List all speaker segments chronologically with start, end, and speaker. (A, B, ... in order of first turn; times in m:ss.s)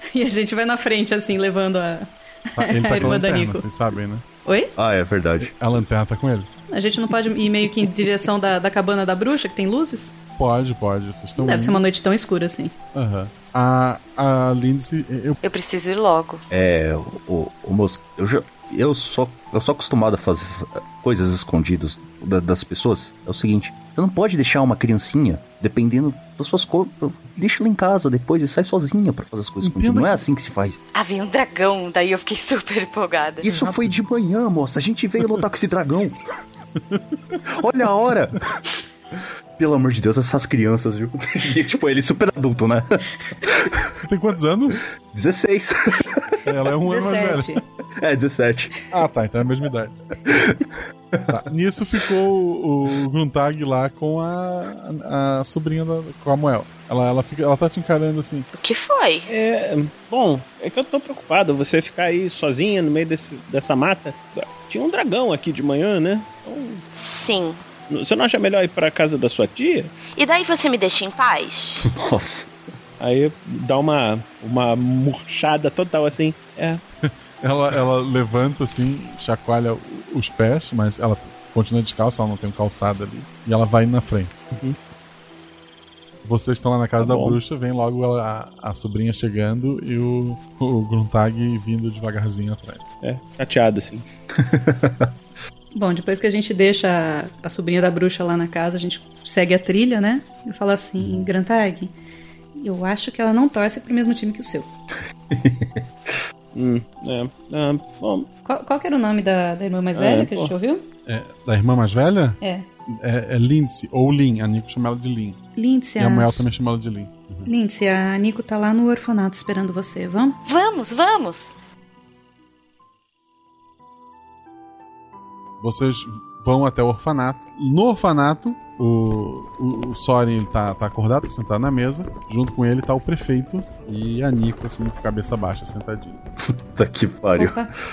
0:00.1-0:02.1 A
0:02.6-0:04.2 B
0:02.6-0:03.6 A
0:04.4-0:04.7 A
0:04.8-0:05.5 C
0:05.4-0:06.5 B
0:06.7-0:10.1 A
0:10.4-0:11.8 B
0:11.4-0:12.7 A
0:12.9-0:15.4 B
0:15.4-0:16.4 D
0:16.5-0:30.8 C
0:29.6-0:30.2 B
0:30.9-0:33.4 D
0:33.4-0:36.2 C
0:33.4-0:33.9 B
0:37.5-0:38.4 C
0:39.6-0:43.8 C
0:44.0-0:44.8 B
0:45.0-0:46.4 C
0:46.4-0:47.5 B
0:46.8-0:47.6 A
0:48.0-0:48.7 C
0:48.9-0:50.0 B
0:50.3-0:51.2 C
0:51.3-0:58.5 B
0:58.5-0:59.3 E
0:59.3-1:06.8 F
1:07.0-1:07.6 E
1:07.9-1:09.9 F
1:10.1-1:11.9 E
1:11.8-1:12.5 C
1:13.0-1:16.8 F
1:17.4-1:24.4 B
1:26.2-1:32.8 B
1:27.0-1:27.4 F
1:33.0-1:34.0 F
1:34.3-1:35.1 C
1:35.7-1:41.9 A
1:42.6-1:44.7 A
1:45.3-1:45.8 C
1:46.5-1:48.3 F
1:48.4-1:50.8 A
1:49.9-1:50.5 F
1:51.0-1:55.4 B
1:52.4-1:52.6 A
1:55.6-1:56.5 A
1:56.0-1:57.5 B
1:57.4-2:00.4 A
2:00.4-2:01.5 D
2:05.6-2:16.2 B
2:16.5-2:17.6 C
2:17.4-2:17.7 A